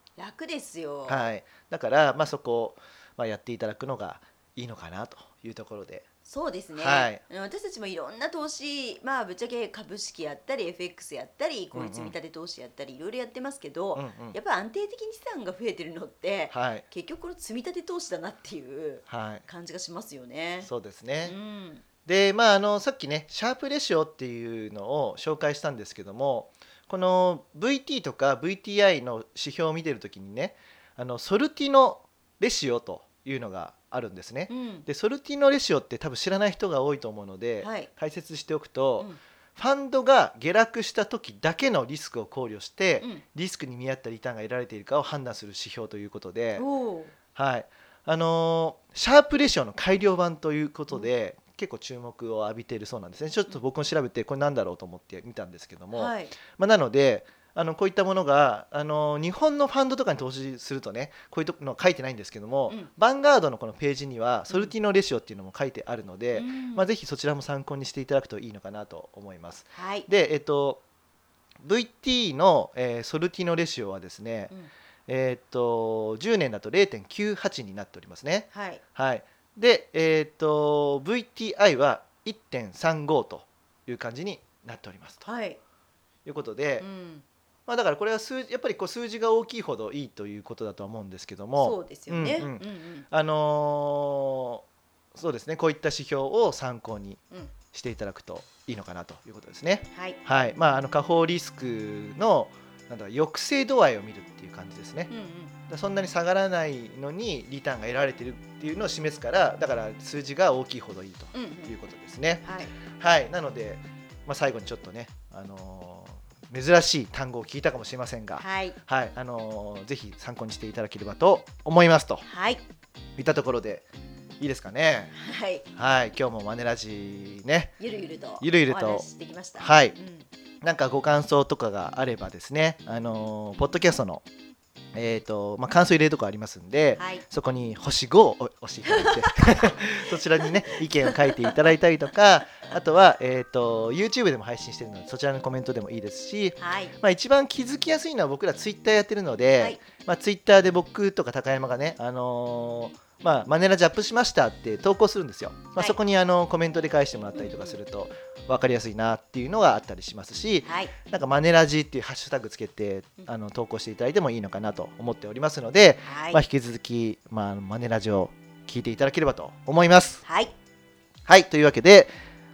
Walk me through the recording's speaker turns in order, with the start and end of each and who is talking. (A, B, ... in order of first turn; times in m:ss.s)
0:00.2-0:01.2 A
0:01.1-0:06.0 B
0:06.2-0:20.7 A
0:06.8-0:07.2 B
0:11.7-0:12.1 B
0:14.0-0:14.4 B
0:16.5-0:16.8 B
0:19.1-0:19.4 B
0:20.6-0:21.3 B
0:21.2-0:21.8 A
0:22.0-0:46.6 B
0:34.5-0:34.9 A
0:37.6-0:37.9 A
0:46.6-0:47.1 A
0:47.3-1:10.8 B
0:55.9-0:56.4 A
1:06.3-1:06.8 A
1:09.7-1:10.1 A
1:11.6-1:14.5 B
1:15.1-1:25.2 B
1:18.5-1:18.8 A
1:25.2-1:25.6 A
1:26.2-1:26.8 B
1:26.8-1:27.2 A
1:27.7-1:34.6 B
1:31.6-1:33.1 A
1:35.1-1:37.2 B
1:37.7-1:45.1 B
1:39.9-1:40.2 A
1:45.1-1:45.5 A
1:45.7-1:52.4 B
1:51.3-1:51.7 A
1:52.4-1:52.7 A
1:53.0-2:02.2 B
1:58.4-1:58.8 A
2:02.2-2:02.6 A
2:03.2-2:03.8 B
2:04.4-2:05.1 B
2:05.1-2:05.6 A
2:05.8-2:07.7 B
2:07.8-2:10.3 A
2:08.4-2:09.0 B
2:09.6-2:09.9 B
2:10.6-2:14.2 B
2:14.9-2:50.2 B
2:17.0-2:17.2 A
2:18.8-2:21.6 A
2:26.6-2:26.9 A
2:37.3-2:37.7 A
2:40.6-2:40.9 A
2:46.0-2:46.4 A
2:50.2-2:50.5 A
2:51.3-2:52.1 B